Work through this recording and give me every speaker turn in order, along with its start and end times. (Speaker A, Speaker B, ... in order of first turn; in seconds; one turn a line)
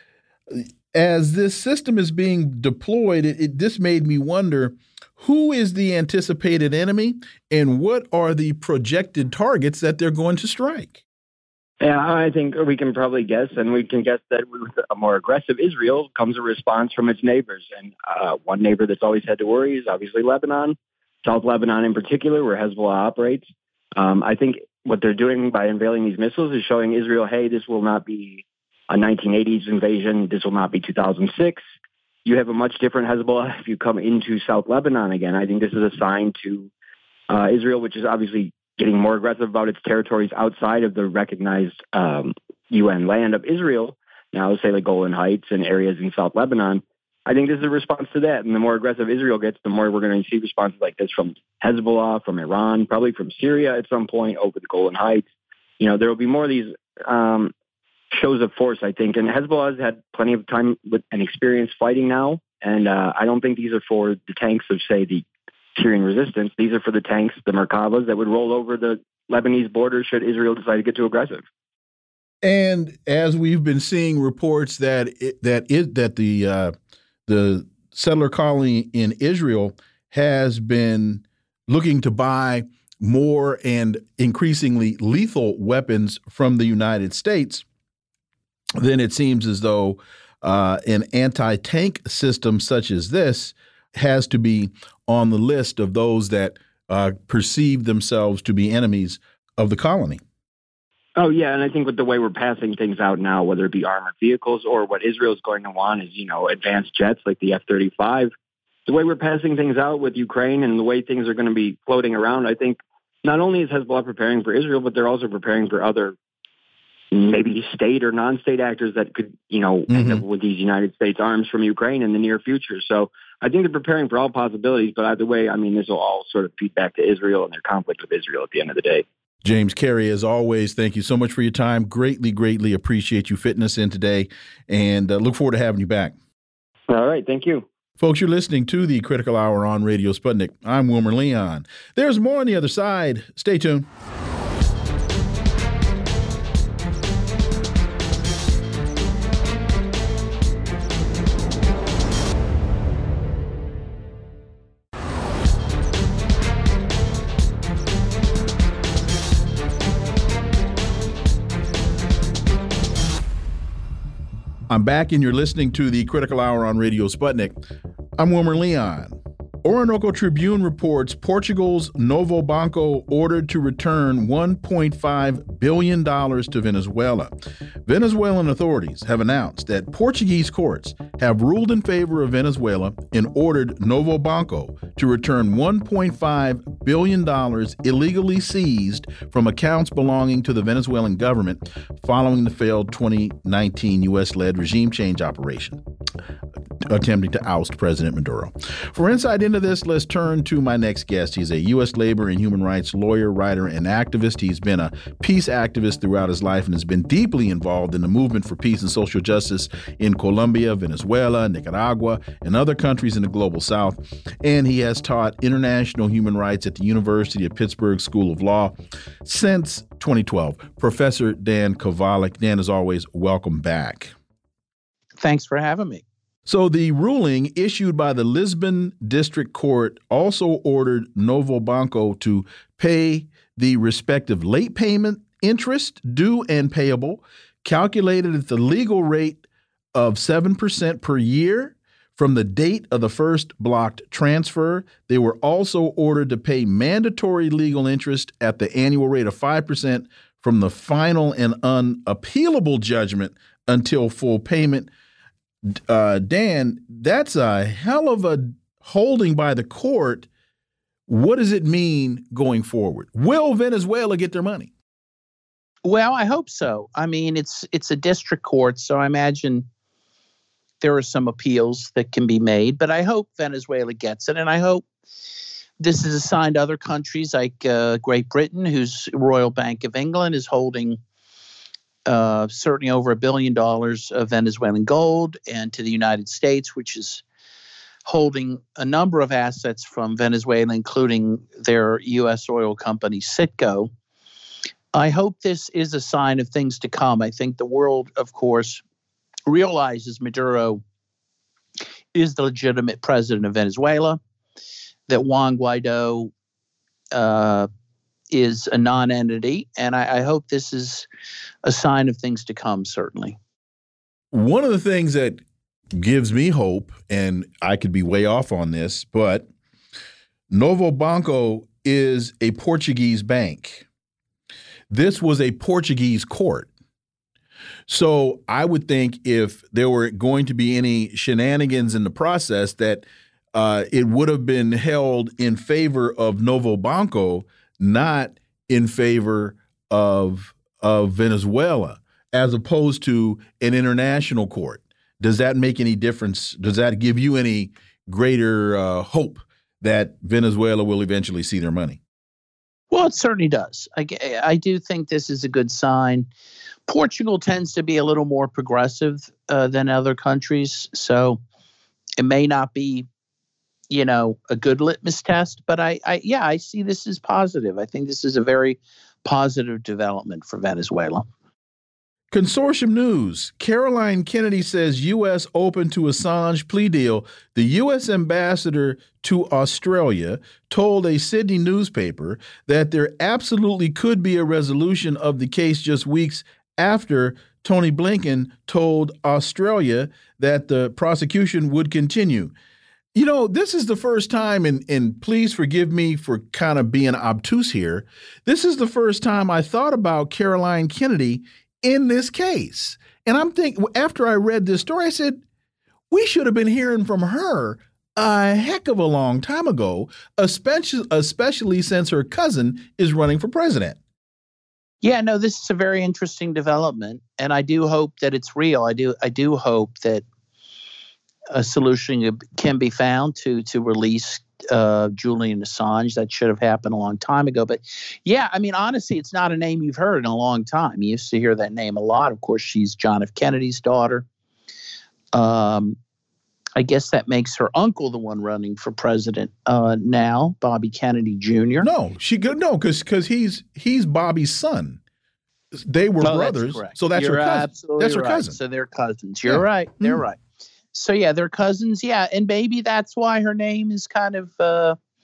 Speaker A: 0.5-11.0
Speaker B: 11.8-31.6
Speaker B: 32.2-36.7
Speaker B: 37.3-55.2
Speaker B: 55.8-57.5
Speaker B: 58.1-65.2
Speaker B: 65.8-71.4
Speaker A: 72.4-76.7
Speaker A: 77.3-87.6
Speaker A: 88.8-100.2
Speaker B: 101.2-108.3
Speaker B: 108.8-116.2
Speaker B: 117.1-129.0
Speaker A: 119.9-120.2
Speaker A: 129.4-136.1
Speaker B: 136.9-137.7
Speaker A: 138.0-143.9
Speaker A: 164.7-167.6
Speaker A: 168.2-177.3
Speaker A: 177.8-195.8
Speaker A: 196.8-224.1
Speaker C: 225.2-226.0
Speaker A: 226.4-254.9
Speaker A: 255.7-260.3
Speaker A: 261.1-264.7
Speaker C: 265.8-269.6
Speaker C: 270.8-274.9
Speaker C: 275.8-281.0
Speaker C: 282.1-287.2
Speaker C: 288.1-293.9
Speaker C: 294.9-298.8
Speaker C: 299.5-300.8
Speaker C: 302.1-304.2
Speaker C: 305.1-306.3
Speaker C: 307.1-307.7
Speaker C: 308.3-311.1
Speaker C: 311.6-313.4
Speaker A: 314.3-315.4
Speaker A: 315.9-319.5
Speaker A: 320.5-323.9
Speaker A: 324.9-326.7
Speaker A: 327.9-352.0
Speaker C: 352.9-356.3
Speaker C: 356.9-361.4
Speaker C: 362.2-363.1
Speaker C: 363.9-371.3
Speaker A: 372.3-392.5
Speaker A: 393.1-405.4
Speaker A: 406.1-414.0
Speaker C: 415.0-420.2
Speaker C: 421.5-434.2
Speaker C: 435.3-436.0
Speaker C: 436.8-441.9
Speaker A: 441.8-445.0
Speaker A: 445.7-448.6
Speaker C: 446.2-450.4
Speaker A: 449.5-450.2
Speaker C: 450.9-455.0